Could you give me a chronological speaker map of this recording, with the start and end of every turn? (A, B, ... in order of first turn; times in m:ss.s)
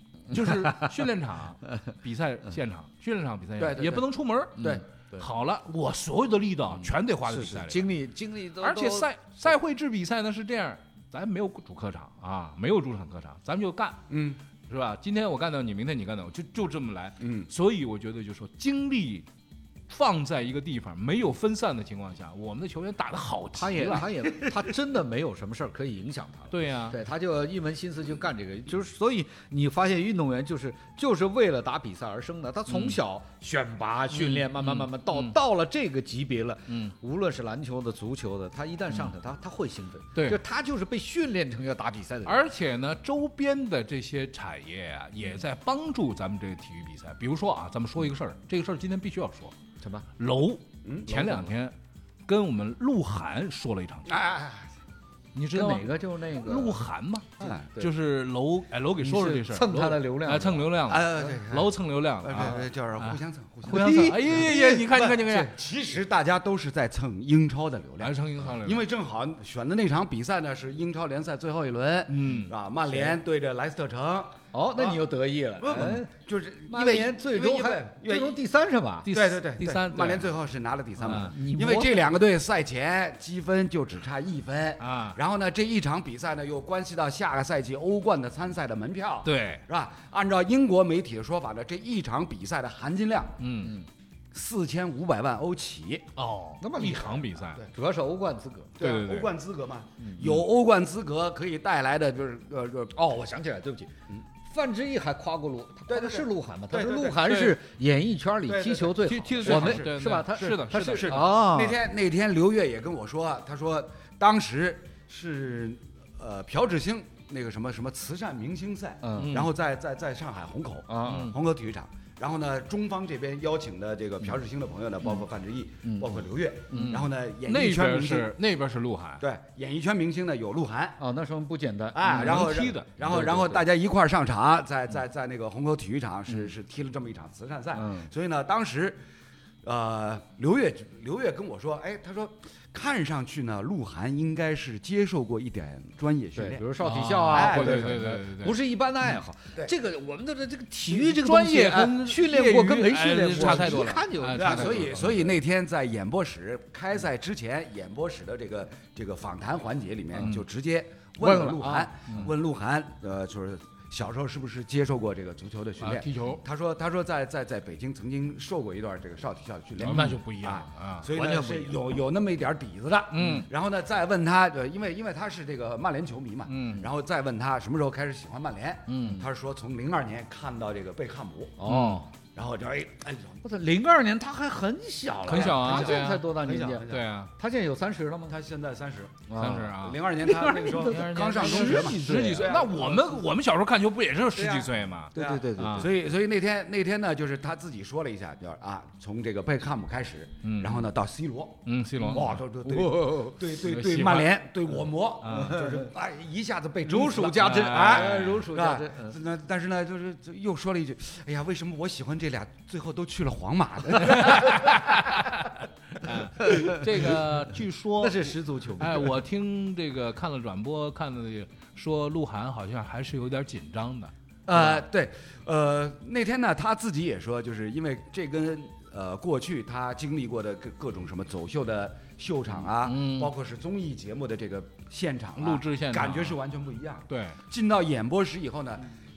0:00.3-0:07.9 A
0:00.3-0:01.0 B
0:03.6-0:04.0 C
0:04.6-0:05.2 B
0:06.8-0:09.1 B
0:08.6-0:14.0 A
0:14.1-0:14.4 C
0:14.7-0:19.3 A
0:17.2-0:17.5 C
0:19.9-0:24.4 A
0:23.5-0:42.4 B
0:26.5-0:27.0 A
0:32.7-0:33.0 A
0:34.1-0:35.3 A
0:36.7-0:36.9 A
0:40.1-0:40.4 A
0:42.2-0:49.5 A
0:49.8-0:50.0 B
0:50.2-0:51.7 A
0:50.8-0:51.4 C
0:52.2-0:54.1 A
0:54.1-0:54.8 C
0:55.3-1:05.5 A
0:55.5-0:56.8 B
0:57.4-0:57.9 B
0:57.4-0:57.7 C
0:59.0-1:00.7 B
1:00.9-1:15.0 C
1:03.7-1:04.3 B
1:08.0-1:08.8 A
1:12.1-1:12.5 A
1:12.9-1:13.2 B
1:14.5-1:16.1 B
1:15.6-1:18.4 C
1:16.7-1:19.1 B
1:19.0-1:20.3 A
1:19.1-1:33.4 C
1:21.0-1:22.1 B
1:21.0-1:21.3 A
1:24.8-1:25.2 A
1:29.2-1:29.6 A
1:33.4-1:33.7 A
1:34.3-1:36.0 C
1:36.2-1:37.6 A
1:36.6-1:38.7 B
1:38.8-1:43.0 C
1:38.8-1:39.3 A
1:40.0-1:40.3 B
1:42.9-1:51.8 B
1:45.9-1:47.5 C
1:47.3-1:47.6 A
1:48.5-1:49.9 C
1:49.0-1:51.3 A
1:50.7-2:08.3 C
1:59.0-1:59.4 B
1:59.2-1:59.5 A
2:00.9-2:01.3 B
2:01.0-2:01.3 A
2:05.8-2:07.0 B
2:06.7-2:09.2 A
2:09.2-2:11.0 C
2:11.0-2:13.6 B
2:11.9-2:19.0 C
2:12.1-2:12.9 A
2:17.7-2:18.1 B
2:19.6-2:26.7 C
2:26.3-2:35.3 B
2:26.8-2:28.6 A
2:27.3-2:28.0 C
2:30.9-2:35.1 A
2:33.4-3:01.6 C
2:40.2-2:40.4 A
2:41.2-2:42.3 B
2:41.6-2:41.9 A
2:45.8-2:46.4 A
2:49.8-2:51.1 A
2:51.1-2:51.8 B
2:53.1-2:53.5 A
2:56.5-2:56.8 A
2:58.9-2:59.2 A
2:59.0-2:59.3 B
3:01.6-3:02.1 B
3:01.6-3:02.0 A
3:02.3-3:03.4 C
3:03.4-3:08.4 B
3:05.2-3:06.3 A
3:05.2-3:07.1 C
3:06.9-3:07.3 A
3:08.3-3:13.2 C
3:09.3-3:12.7 B
3:09.3-3:10.0 A
3:10.8-3:15.9 A
3:14.4-3:34.9 C
3:15.1-3:15.9 B
3:20.4-3:20.8 A
3:21.6-3:22.4 A
3:22.0-3:23.4 B
3:23.6-3:24.3 A
3:25.2-3:25.6 A
3:25.4-3:25.9 B
3:26.8-3:29.2 B
3:27.2-3:28.4 A
3:34.0-3:44.1 A
3:36.5-3:37.1 B
3:38.0-3:39.2 B
3:44.5-3:58.9 C
3:44.5-3:44.8 B
3:52.8-3:53.3 A
3:55.4-3:56.4 A
3:57.1-3:57.4 A